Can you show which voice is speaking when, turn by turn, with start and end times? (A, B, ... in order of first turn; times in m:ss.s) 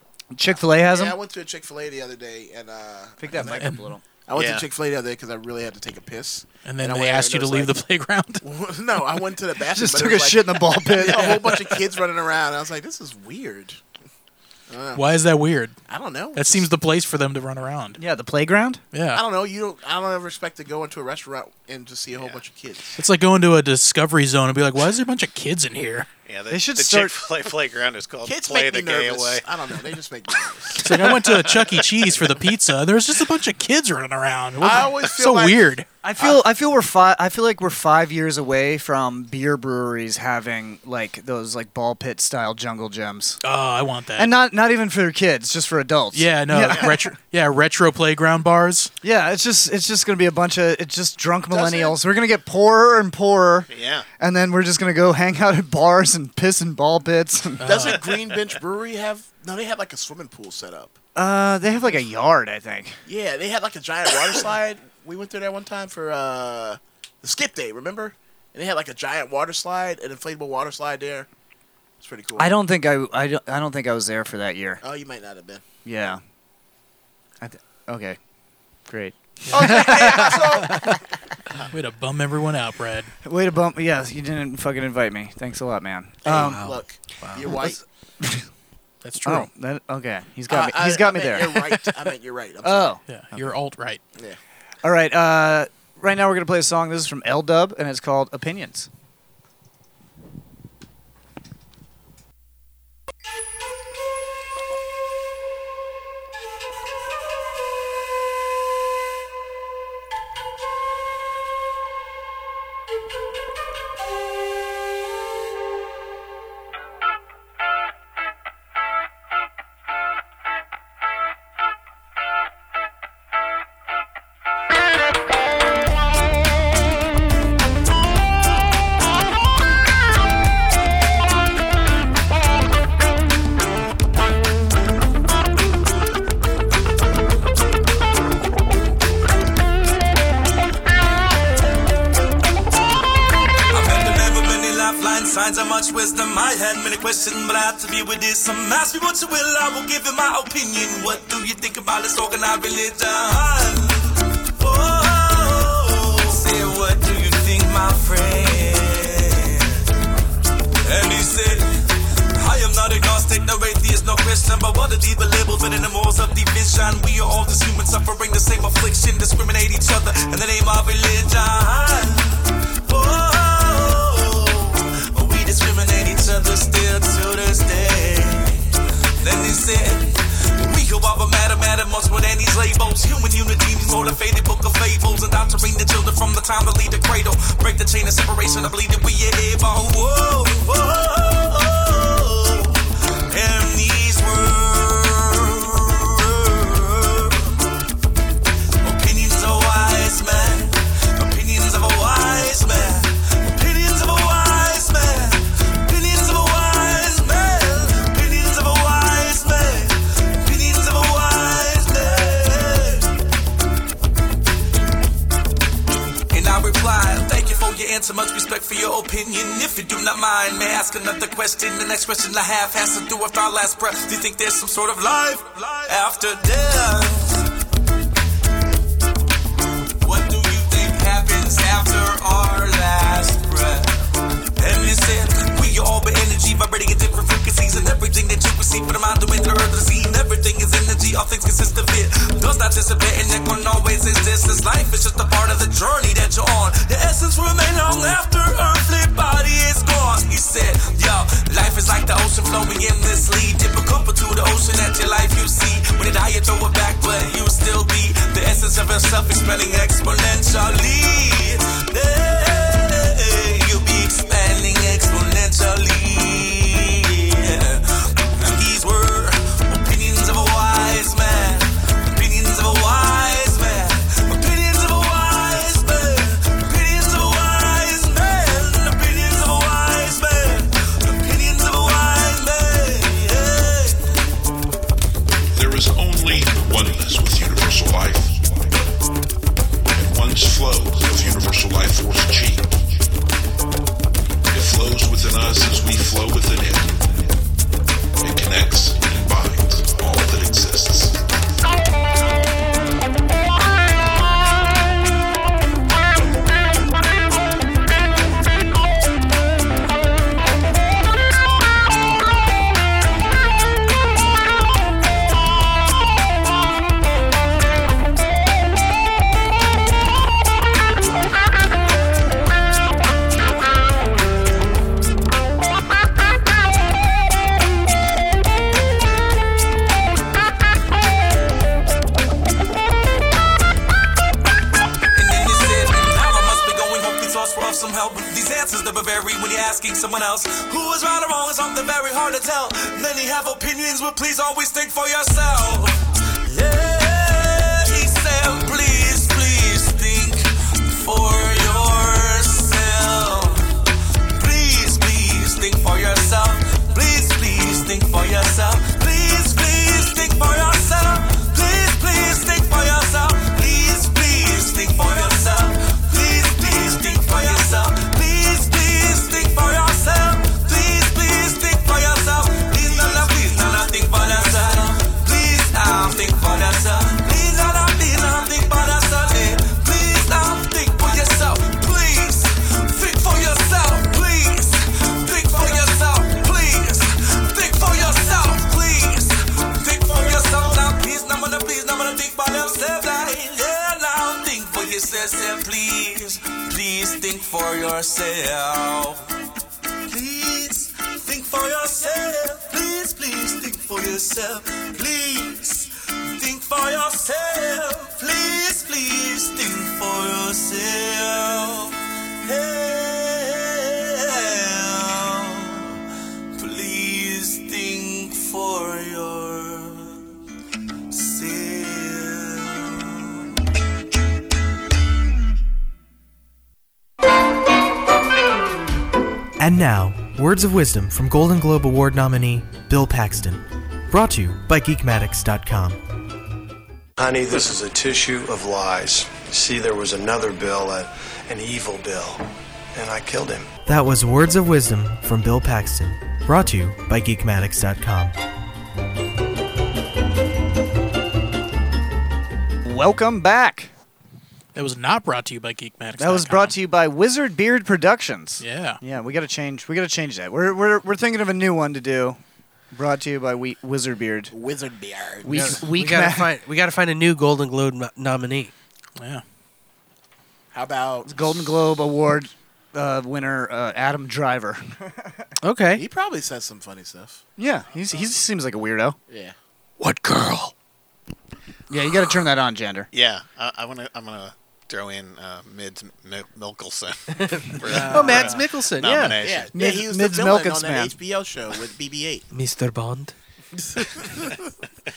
0:00.3-0:01.2 A
0:00.8-0:03.6 B
0:03.2-0:04.0 A
0:03.5-0:03.9 C
0:04.3-0:07.8 B
0:04.3-0:04.7 D
0:06.6-0:08.4 C
0:08.4-0:13.8 B
0:09.7-0:11.5 A
0:11.0-0:11.7 C
0:14.7-0:15.0 B
0:14.9-0:15.8 C
0:15.9-0:16.7 B
0:16.3-0:18.0 C
0:18.0-0:18.8 A
0:18.9-0:19.2 C
0:19.1-0:23.0 B
0:23.0-0:26.1 C
0:26.2-0:29.5 D
0:26.5-0:27.1 A
0:28.2-0:31.4 B
0:30.8-0:35.8 C
0:34.6-0:36.4 B
0:36.0-0:43.4 A
0:43.4-0:44.3 C
0:44.2-0:47.1 A
0:46.1-0:48.9 C
0:49.0-0:57.8 A
0:51.5-0:52.0 B
0:53.7-0:54.0 D
0:57.6-0:58.1 C
0:57.6-1:01.0 B
1:01.1-1:03.0 A
1:03.0-1:11.3 B
1:12.0-1:12.5 B
1:12.4-1:14.8 A
1:14.8-1:15.6 B
1:15.8-1:16.2 A
1:17.4-1:18.2 A
1:18.9-1:21.0 A
1:19.4-1:20.4 C
1:19.5-1:20.9 B
1:21.7-1:23.1 C
1:23.2-1:26.6 A
1:26.2-1:27.8 B
1:26.3-1:27.7 E
1:28.2-1:28.4 A
1:29.0-1:29.5 C
1:29.2-1:31.8 A
1:30.5-1:33.0 B
1:32.6-1:33.0 A
1:33.1-1:34.0 C
1:34.8-1:38.9 A
2:23.7-2:39.9 F
2:40.8-3:17.6 F
3:18.8-3:33.1 F
3:36.3-3:47.5 F
3:50.0-4:44.2 F
4:45.5-4:48.8 G
4:49.9-4:52.8 G
4:54.5-4:57.4 G
4:58.2-5:01.3 G
5:35.1-6:39.2 F
6:40.1-6:56.0 F
6:56.5-7:00.2 F
7:01.1-7:03.5 F
7:09.6-7:16.0 H
7:17.2-7:23.7 I
7:23.8-7:28.4 H
7:32.8-7:33.9 A
7:34.7-7:36.8 C
7:36.2-7:42.4 A
7:38.6-7:39.0 C
7:42.9-7:44.5 A
7:44.5-7:45.8 B
7:45.4-7:46.5 A
7:45.5-7:48.7 E
7:49.2-7:49.4 C
7:50.7-7:51.6 B
7:51.2-7:55.3 A
7:55.6-7:56.0 E
7:56.0-7:57.4 B
7:57.6-7:59.2 A
7:59.3-7:59.5 B
8:00.0-8:00.7 E
8:01.9-8:03.1 A
8:03.1-8:09.7 D
8:07.7-8:09.4 E
8:07.9-8:08.5 B
8:09.4-8:12.5 B
8:09.7-8:11.2 A
8:12.5-8:13.3 E
8:13.8-8:14.6 B